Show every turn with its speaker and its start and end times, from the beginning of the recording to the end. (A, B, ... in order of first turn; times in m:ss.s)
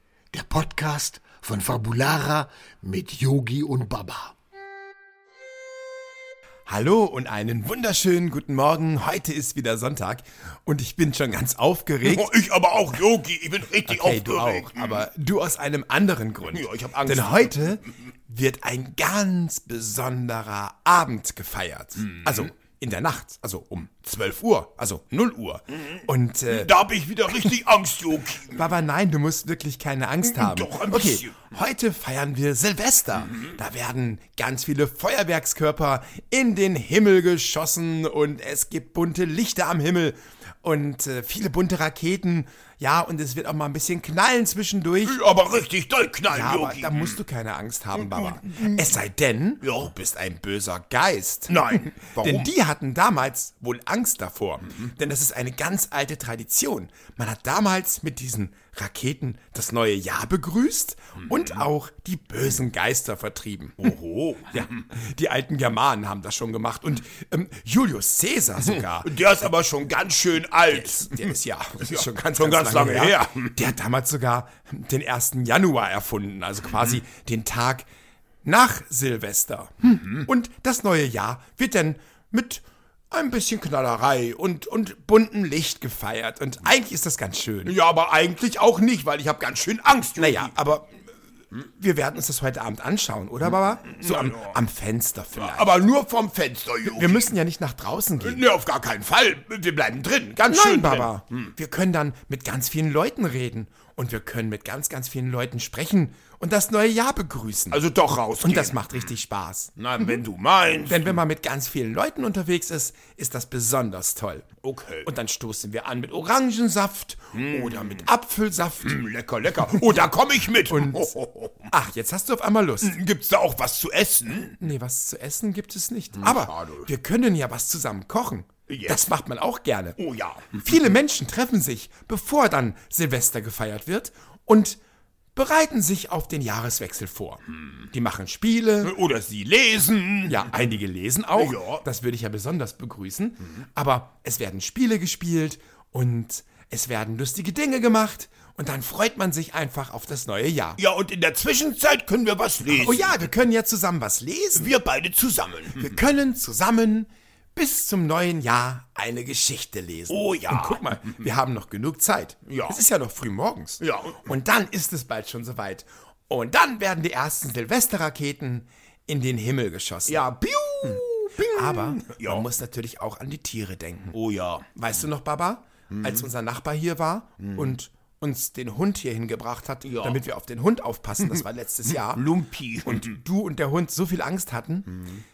0:00.3-0:04.4 A
0:06.7-0:12.3 B
0:12.0-0:15.1 C
0:13.8-0:27.6 B
0:16.5-0:17.8 C
0:22.1-0:22.5 C
0:26.5-0:28.6 C
0:28.5-0:45.2 B
0:30.2-0:31.4 C
0:45.0-0:47.2 C
0:46.3-1:03.9 B
0:48.1-0:48.8 C
0:49.6-0:49.9 C
0:51.5-0:52.5 C
1:03.8-1:04.6 C
1:04.4-1:09.1 B
1:08.6-1:13.6 C
1:10.6-1:17.9 B
1:18.4-1:27.8 B
1:27.6-1:30.5 C
1:30.2-1:31.0 B
1:31.5-1:35.8 B
1:33.8-1:34.6 C
1:35.4-1:37.3 C
1:36.8-1:38.5 B
1:38.2-1:41.4 C
1:40.4-1:47.8 B
1:47.7-1:48.9 C
1:48.4-1:50.2 B
1:49.8-1:51.2 C
1:50.9-1:59.0 B
1:54.6-1:55.1 C
1:57.3-1:58.1 C
1:58.8-2:01.7 C
1:59.6-2:01.2 B
2:01.7-2:03.0 B
2:02.8-2:04.6 C
2:04.5-2:10.0 B
2:06.1-2:06.9 C
2:08.7-2:09.1 C
2:10.0-2:10.6 C
2:10.5-2:14.8 B
2:15.4-2:19.0 B
2:18.8-2:20.5 C
2:20.2-2:30.8 B
2:21.4-2:21.8 C
2:30.8-2:33.2 C
2:32.7-2:34.7 B
2:34.6-2:36.0 C
2:35.7-2:50.3 B
2:40.1-2:41.2 C
2:42.5-2:42.8 C
2:43.8-2:44.2 C
2:50.1-2:52.5 C
2:50.8-2:54.2 B
2:54.1-2:54.7 C
2:54.7-3:02.3 B
2:56.0-2:56.3 C
2:57.4-2:57.7 C
2:59.8-3:00.2 C
3:01.2-3:03.2 C
3:02.8-3:05.0 B